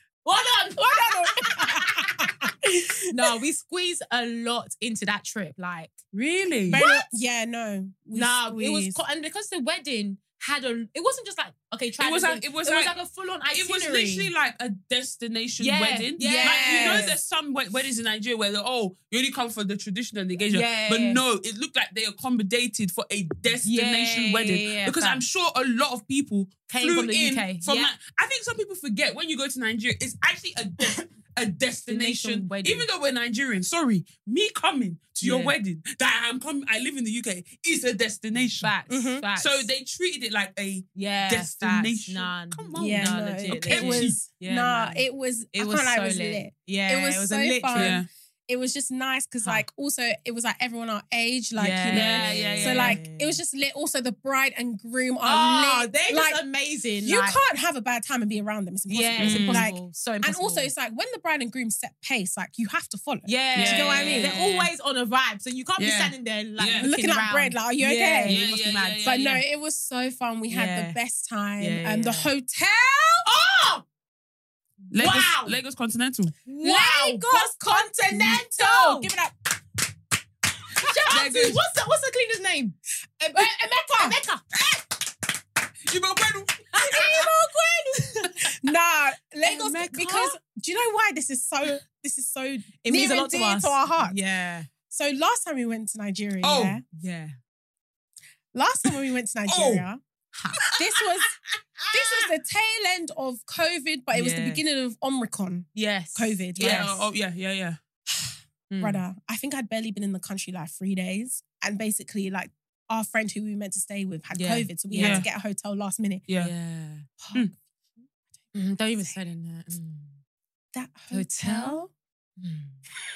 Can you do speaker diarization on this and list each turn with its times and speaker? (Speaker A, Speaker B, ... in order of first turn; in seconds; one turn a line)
Speaker A: 0.2-1.9
Speaker B: 0.8-3.1
Speaker A: 3.1-6.0
Speaker C: 6.1-6.8
Speaker A: 6.7-7.1
Speaker B: 6.7-9.0
Speaker A: 8.1-14.3
Speaker C: 12.0-12.9
Speaker C: 13.5-38.7
Speaker A: 15.6-17.2
Speaker B: 16.2-17.2
Speaker A: 20.5-21.2
Speaker A: 23.6-25.2
Speaker A: 26.7-27.9
Speaker A: 31.9-32.9
Speaker A: 35.2-35.5
Speaker A: 38.6-39.7
Speaker B: 38.9-39.3
Speaker C: 39.4-44.2
Speaker A: 41.0-48.0
Speaker B: 42.7-56.4
Speaker C: 47.8-48.1
Speaker A: 51.6-53.4
Speaker C: 51.9-53.0
Speaker A: 55.2-57.4
Speaker B: 57.0-64.7
Speaker A: 58.9-60.7
Speaker C: 59.2-59.6
Speaker A: 63.2-69.4
Speaker C: 63.5-64.6
Speaker C: 65.8-66.9
Speaker B: 66.8-68.4
Speaker C: 68.3-69.4
Speaker B: 69.0-73.3
Speaker A: 70.5-71.0
Speaker A: 71.6-72.3
Speaker A: 73.2-73.8
Speaker C: 74.9-76.3
Speaker A: 74.9-75.6
Speaker A: 76.5-79.1
Speaker B: 76.6-79.8
Speaker B: 80.8-81.1
Speaker A: 80.8-84.5
Speaker C: 81.1-81.6
Speaker B: 83.3-84.2
Speaker C: 85.9-87.0
Speaker A: 86.7-87.3
Speaker B: 86.7-94.2
Speaker A: 89.5-90.4
Speaker A: 92.8-94.7
Speaker B: 94.9-96.8
Speaker C: 96.4-96.8
Speaker A: 96.9-97.3
Speaker B: 98.5-100.0
Speaker C: 99.5-99.9
Speaker A: 100.3-100.8
Speaker B: 100.7-101.3
Speaker B: 101.9-106.9
Speaker A: 104.1-104.6
Speaker A: 105.8-107.1
Speaker C: 106.6-107.8
Speaker B: 108.1-116.2
Speaker A: 108.7-109.0
Speaker A: 114.3-115.3
Speaker C: 115.0-115.3
Speaker C: 116.3-116.5
Speaker A: 116.3-117.1
Speaker B: 117.2-118.0
Speaker A: 118.5-120.2
Speaker B: 120.7-121.9
Speaker A: 121.1-121.9
Speaker A: 122.4-122.8